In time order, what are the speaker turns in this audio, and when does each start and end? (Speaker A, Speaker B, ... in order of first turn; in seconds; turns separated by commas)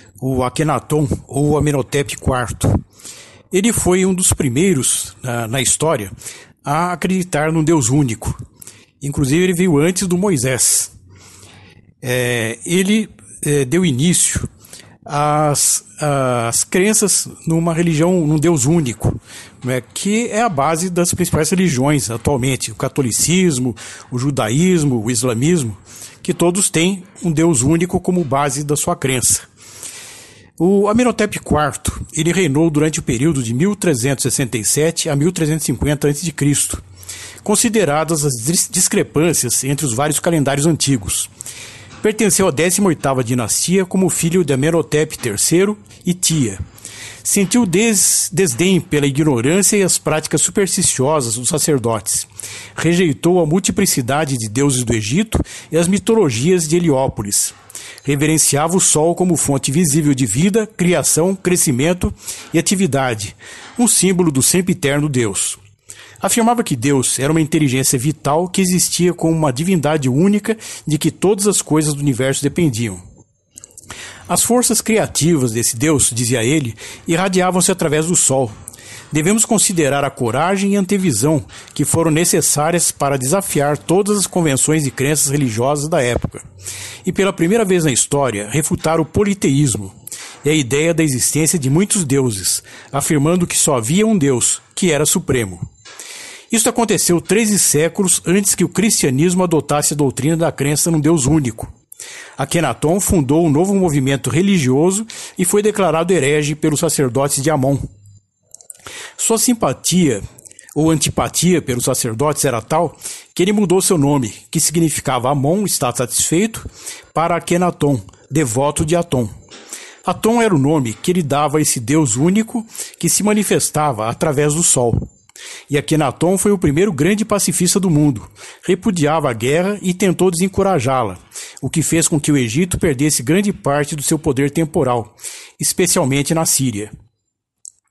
Speaker A: 0.2-2.8, Speaker A: 3.5-8.4, Speaker A: 9.0-10.9, Speaker A: 12.0-14.5, Speaker A: 15.0-29.4, Speaker A: 30.6-36.8, Speaker A: 37.4-41.3, Speaker A: 42.0-46.6, Speaker A: 47.2-65.6, Speaker A: 66.2-73.0, Speaker A: 74.3-78.5, Speaker A: 79.1-86.4, Speaker A: 87.0-95.7, Speaker A: 96.5-101.7, Speaker A: 102.4-107.9, Speaker A: 109.2-110.2, Speaker A: 110.8-119.3, Speaker A: 120.0-125.1, Speaker A: 125.7-136.9